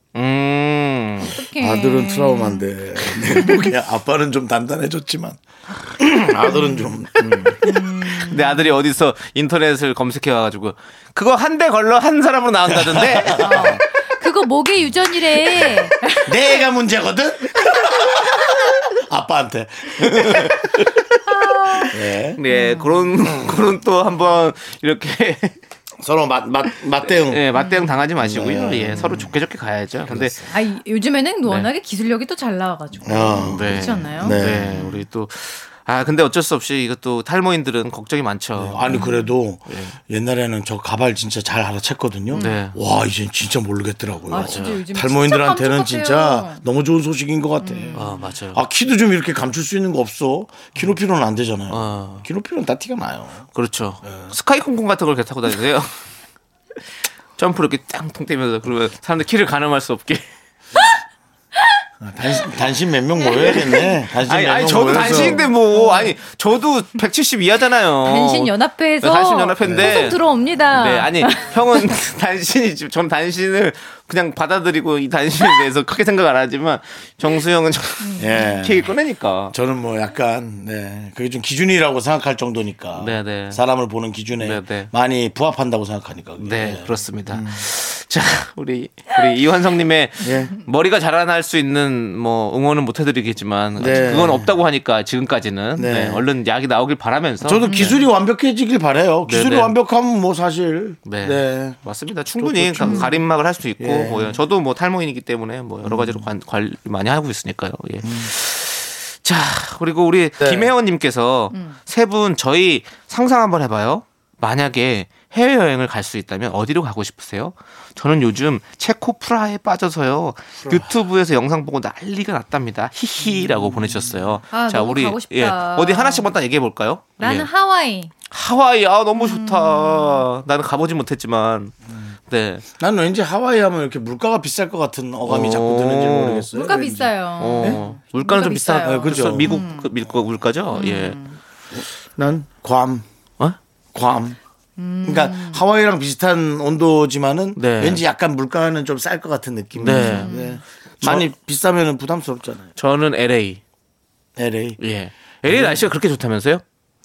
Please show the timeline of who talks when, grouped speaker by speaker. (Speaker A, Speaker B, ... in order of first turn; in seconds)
Speaker A: 0.1-1.4, 8.0-13.8, 22.4-25.6, 27.1-30.4, 33.4-39.0, 39.7-40.0, 42.3-42.8, 44.3-44.8, 47.9-48.6, 51.7-52.2, 53.5-55.9, 57.4-60.3, 63.3-79.5, 83.0-83.6, 84.4-84.9, 86.4-98.0, 99.3-99.8, 101.0-127.5, 128.3-131.8, 132.3-132.7, 135.2-136.5, 137.4-141.2, 147.6-148.0, 149.8-150.3, 151.0-151.3, 152.8-153.6, 154.8-156.6
Speaker B: 1.3-2.7, 3.4-3.7, 7.6-8.7, 13.4-16.6, 21.3-23.1, 27.6-27.9, 30.5-35.0, 38.9-39.3, 42.3-42.6, 44.3-46.6, 47.6-48.3, 63.3-63.9, 65.0-66.2, 68.0-72.0, 78.0-78.6, 97.7-98.0, 102.8-103.2, 124.5-126.3, 127.2-128.1, 129.2-130.2, 136.5-139.9, 140.7-141.4, 144.8-145.6, 149.8-150.6
Speaker C: 1.6-7.6, 12.7-13.8, 15.6-21.1, 21.8-22.4, 26.0-27.5, 28.2-29.4, 30.1-30.6, 33.0-34.9, 38.6-53.5, 54.1-54.3, 62.0-65.5, 69.6-70.0, 78.2-78.9, 79.5-87.7, 90.2-90.5, 93.8-94.5, 95.8-96.3, 97.4-101.8, 102.4-103.1, 103.8-104.4, 105.8-106.3, 108.0-108.3, 110.4-110.7, 123.8-124.1, 132.8-137.8, 138.8-139.6, 141.7-143.1, 143.9-144.4, 145.0-152.7, 154.4-154.8, 155.5-155.8